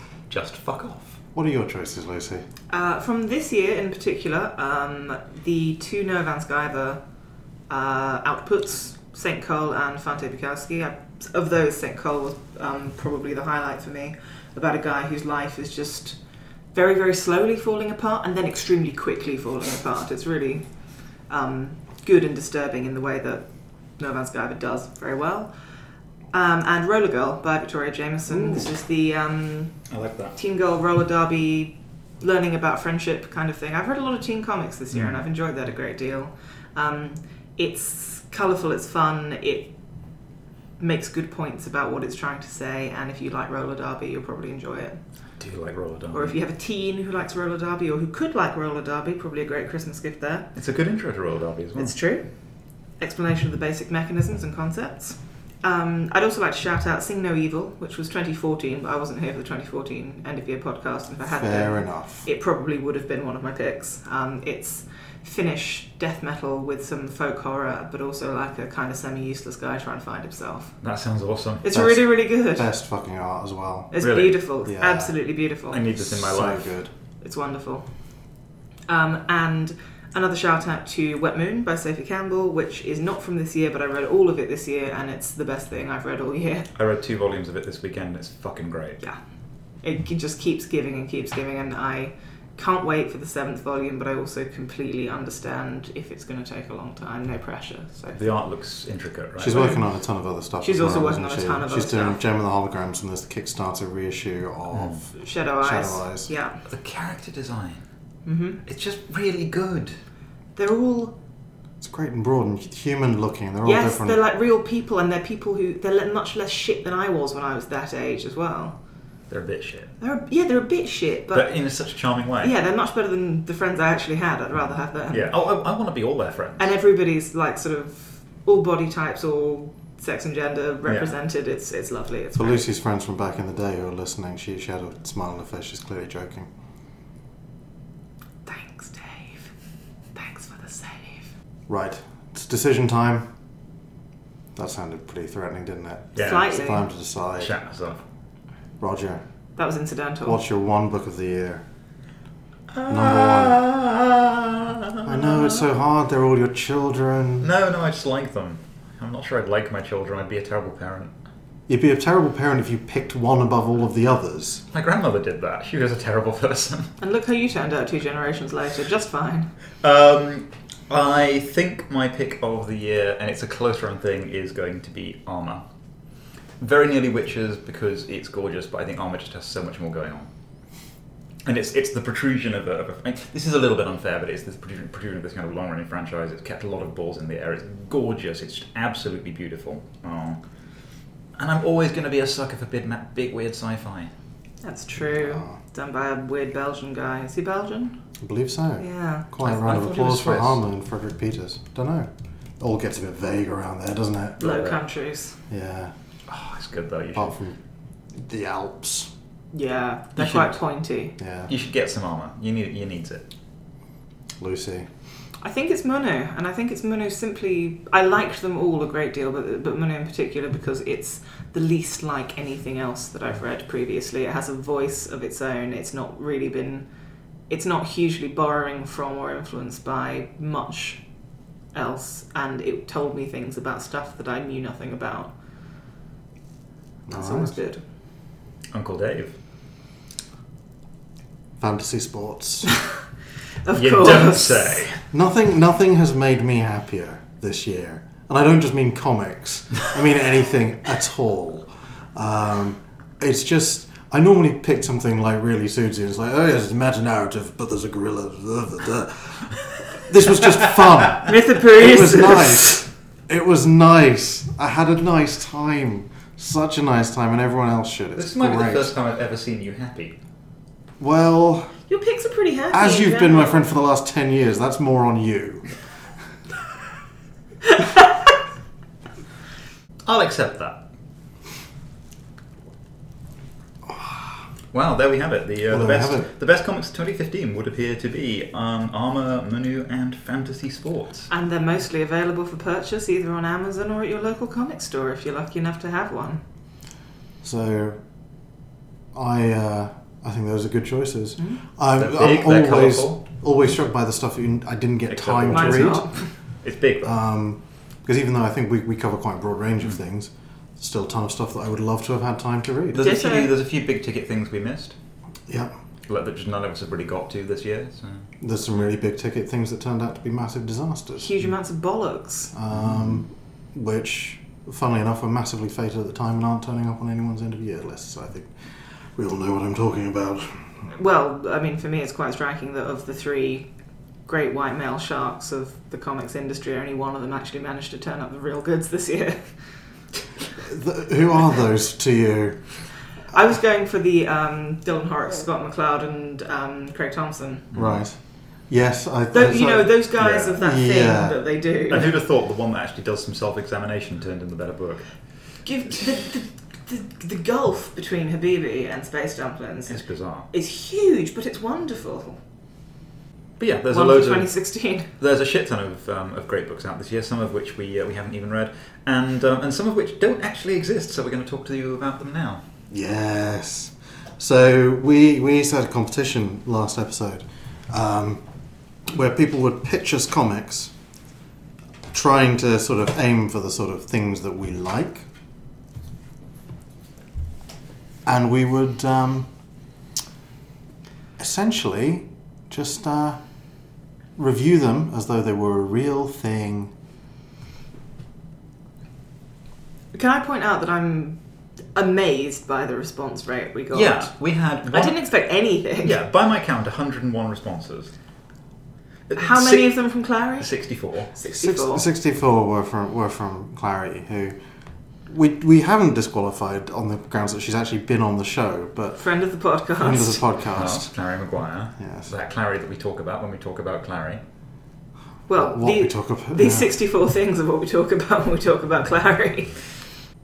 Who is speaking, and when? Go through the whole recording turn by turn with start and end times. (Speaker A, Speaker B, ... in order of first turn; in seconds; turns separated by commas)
Speaker A: 0.3-1.2, Speaker B: 1.3-2.5, Speaker C: 2.7-7.0, Speaker C: 7.7-16.2, Speaker C: 16.7-20.6, Speaker C: 21.3-23.4, Speaker C: 24.0-25.5, Speaker C: 26.3-29.7, Speaker A: 28.4-28.6, Speaker A: 29.9-30.4, Speaker C: 30.4-39.7, Speaker A: 34.9-35.2, Speaker C: 40.8-45.0, Speaker A: 45.4-46.4, Speaker C: 46.1-50.5, Speaker A: 50.5-52.0, Speaker C: 51.8-52.3, Speaker C: 53.0-70.7, Speaker B: 61.3-62.3, Speaker A: 70.8-71.7, Speaker C: 71.6-72.7, Speaker B: 71.7-73.9, Speaker C: 73.9-75.8, Speaker A: 74.0-74.4, Speaker B: 74.6-75.1, Speaker A: 75.7-76.8, Speaker B: 76.0-76.9, Speaker C: 77.2-77.9, Speaker C: 78.9-86.7, Speaker A: 86.8-89.0, Speaker C: 89.8-98.2, Speaker A: 98.1-99.8, Speaker B: 99.4-106.3, Speaker C: 99.5-99.8, Speaker C: 100.6-102.2, Speaker A: 104.7-105.0, Speaker C: 105.1-106.6, Speaker A: 106.7-107.8, Speaker C: 108.3-108.6, Speaker A: 108.7-110.0, Speaker C: 110.6-111.2, Speaker B: 111.8-114.2, Speaker C: 113.6-118.8, Speaker A: 119.3-119.9, Speaker C: 120.0-121.5, Speaker A: 121.3-122.5, Speaker C: 122.4-125.3, Speaker A: 125.1-126.7, Speaker C: 126.6-132.7, Speaker A: 130.9-131.1, Speaker B: 132.3-136.5, Speaker C: 138.5-139.5, Speaker C: 140.2-141.3, Speaker B: 141.7-143.3, Speaker B: 144.6-147.5, Speaker A: 146.2-146.5, Speaker C: 146.2-146.9, Speaker A: 147.4-148.0, Speaker B: 148.8-149.2, Speaker C: 149.6-150.4, Speaker B: 150.2-151.7, Speaker A: 152.7-155.5, Speaker B: 152.9-153.6, Speaker B: 155.0-157.5, Speaker A: 157.4-161.1, Speaker B: 161.7-164.6, Speaker A: 164.7-166.9, Speaker C: 167.0-169.5, Speaker A: 169.8-175.6, Speaker A: 176.6-180.3, Speaker A: 181.4-190.4, Speaker A: 191.4-194.1, Speaker C: 194.6-198.0, Speaker B: 195.2-195.6, Speaker B: 198.2-204.5, Speaker C: 198.8-199.3, Speaker A: 199.4-200.6, Speaker C: 204.4-205.4, Speaker A: 204.4-204.8, Speaker B: 205.5-205.9, Speaker A: 206.3-207.3, Speaker B: 207.1-207.6, Speaker B: 208.1-209.1, Speaker C: 209.5-211.2, Speaker A: 210.2-210.6, Speaker B: 211.2-211.5, Speaker A: 211.5-213.3, Speaker B: 214.4-214.9, Speaker C: 215.4-226.9, Speaker C: 227.5-231.0, Speaker C: 231.7-235.3, Speaker B: 237.1-237.6, Speaker C: 237.1-237.8, Speaker A: 238.7-239.3, Speaker B: 241.6-242.7, Speaker C: 243.6-244.8, Speaker A: 243.7-245.0, Speaker B: 245.1-268.9, Speaker C: 261.2-262.8, Speaker A: 268.2-270.2, Speaker B: 271.0-271.8, Speaker C: 271.9-273.7, Speaker B: 272.7-275.7, Speaker A: 280.1-280.8, Speaker A: 284.7-291.3, Speaker B: 285.7-286.3, Speaker C: 291.3-296.4, Speaker B: 297.4-298.0, Speaker B: 299.1-306.1, Speaker A: 302.0-303.2, Speaker A: 305.1-306.1, Speaker C: 305.5-306.3, Speaker A: 306.6-307.1, Speaker B: 307.0-313.1, Speaker A: 312.9-315.0, Speaker C: 313.0-313.5, Speaker B: 315.5-315.7, Speaker A: 316.1-318.3, Speaker B: 318.4-321.3, Speaker C: 321.2-322.5, Speaker B: 322.5-328.5, Speaker B: 329.1-330.9, Speaker C: 330.9-333.7, Speaker C: 334.3-339.5, Speaker B: 340.6-342.6, Speaker C: 343.3-347.7, Speaker A: 347.7-348.0, Speaker B: 347.7-348.2, Speaker B: 348.7-351.4, Speaker C: 349.3-352.1, Speaker A: 351.9-355.1, Speaker C: 355.6-362.4, Speaker A: 359.9-360.5, Speaker A: 363.6-364.5, Speaker C: 363.9-365.1, Speaker A: 365.2-372.6, Speaker B: 372.9-378.4, Speaker B: 379.1-380.9, Speaker B: 382.1-385.3, Speaker B: 388.3-389.5, Speaker B: 391.4-393.4, Speaker B: 394.4-396.9, Speaker C: 400.1-401.4, Speaker C: 401.9-404.3, Speaker A: 403.9-405.2, Speaker C: 404.9-406.2, Speaker A: 406.0-408.1, Speaker A: 409.3-409.9, Speaker C: 409.4-410.7, Speaker A: 410.6-411.3, Speaker C: 411.4-412.1, Speaker B: 411.5-414.6, Speaker B: 415.3-419.2, Speaker C: 419.2-420.4, Speaker B: 420.0-421.1, Speaker A: 420.7-424.4, Speaker B: 422.0-422.3, Speaker C: 425.5-429.8, Speaker B: 425.6-426.9